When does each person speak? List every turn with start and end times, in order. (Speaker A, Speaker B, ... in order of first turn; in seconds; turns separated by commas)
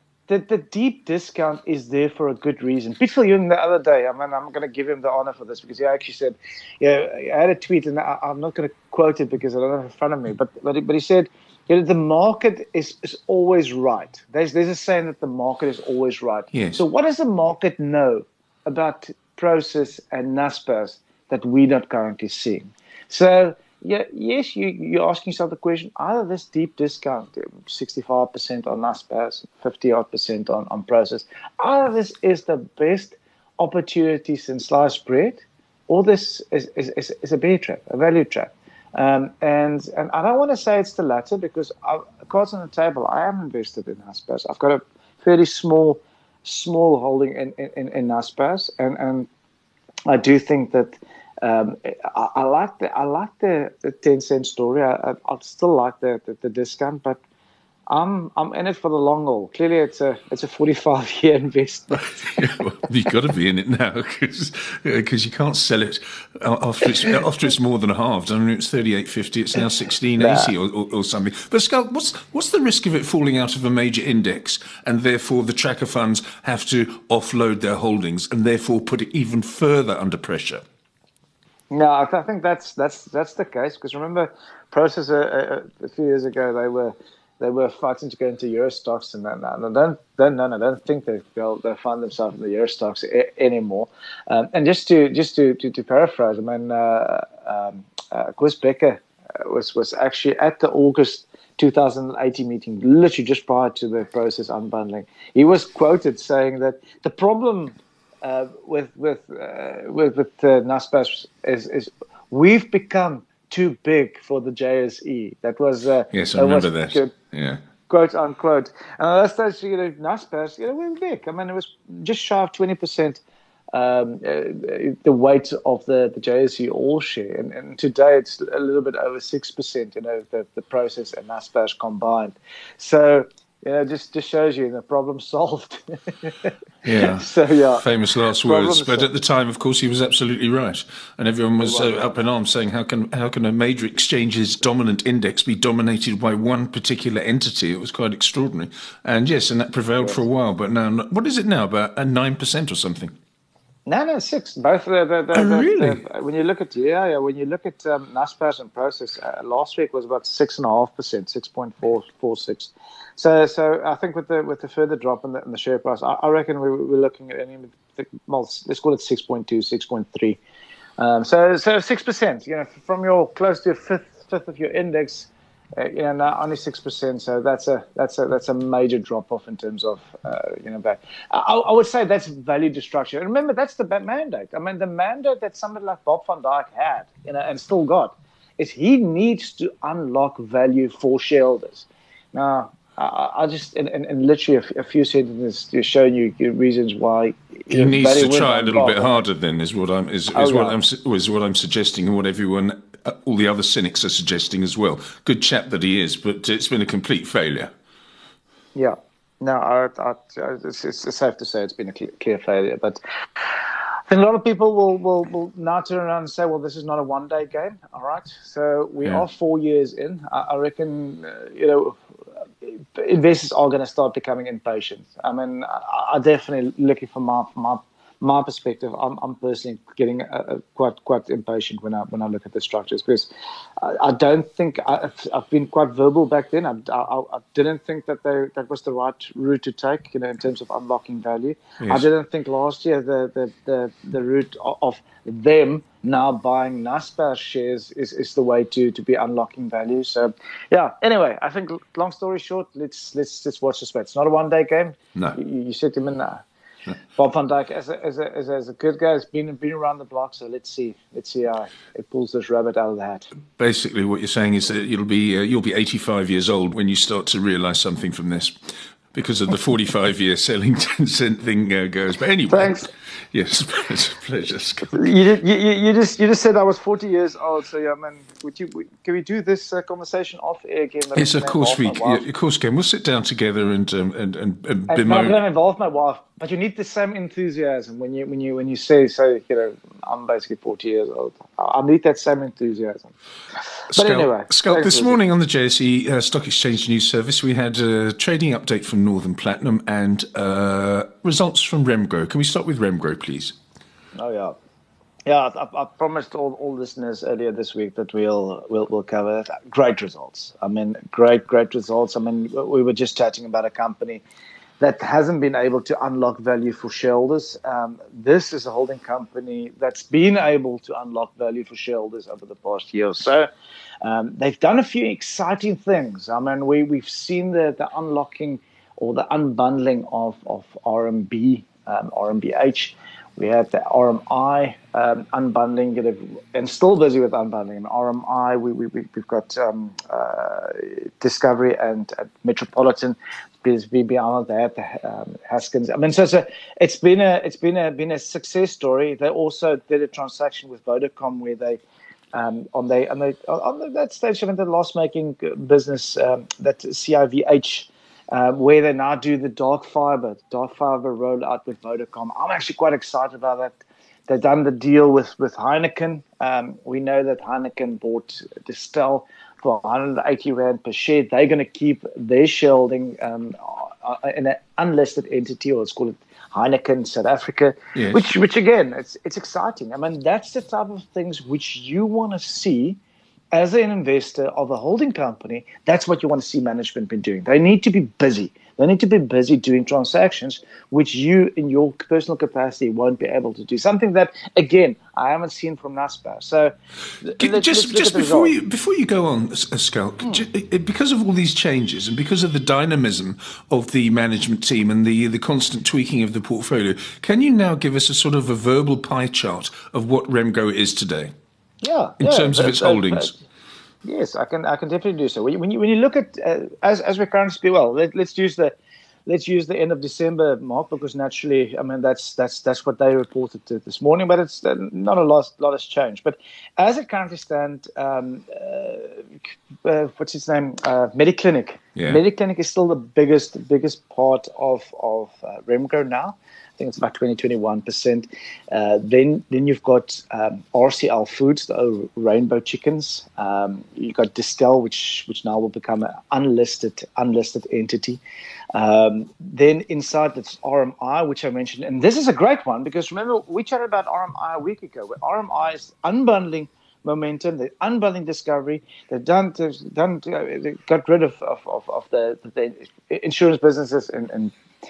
Speaker A: 0.3-49.3, Speaker B: 16.5-16.8, Speaker A: 50.1-57.2, Speaker A: 57.9-62.0, Speaker B: 61.9-80.6, Speaker A: 70.2-70.5, Speaker A: 81.7-117.1, Speaker B: 116.1-117.6, Speaker A: 117.9-123.2, Speaker A: 123.7-137.8, Speaker B: 136.8-153.1, Speaker A: 138.4-139.2, Speaker A: 141.6-142.0, Speaker A: 153.9-170.4, Speaker B: 155.3-156.0, Speaker A: 171.0-199.2, Speaker B: 197.7-207.7, Speaker A: 200.3-200.8, Speaker A: 208.8-213.0, Speaker A: 214.1-222.0, Speaker A: 222.6-256.4, Speaker B: 241.8-242.1, Speaker A: 257.2-263.3, Speaker B: 263.6-275.1, Speaker A: 272.5-272.9, Speaker A: 274.9-282.2, Speaker B: 281.2-285.4, Speaker A: 284.9-293.1, Speaker A: 293.9-295.2, Speaker B: 293.9-303.6, Speaker A: 304.1-304.6, Speaker A: 305.3-314.2, Speaker A: 314.8-323.5, Speaker A: 324.0-351.8, Speaker A: 352.3-383.0, Speaker B: 377.9-378.2, Speaker A: 383.5-398.5, Speaker B: 397.3-411.3, Speaker A: 411.8-413.4, Speaker B: 412.2-413.4, Speaker A: 414.0-418.7, Speaker A: 419.3-429.3, Speaker A: 429.8-448.2, Speaker A: 448.7-464.6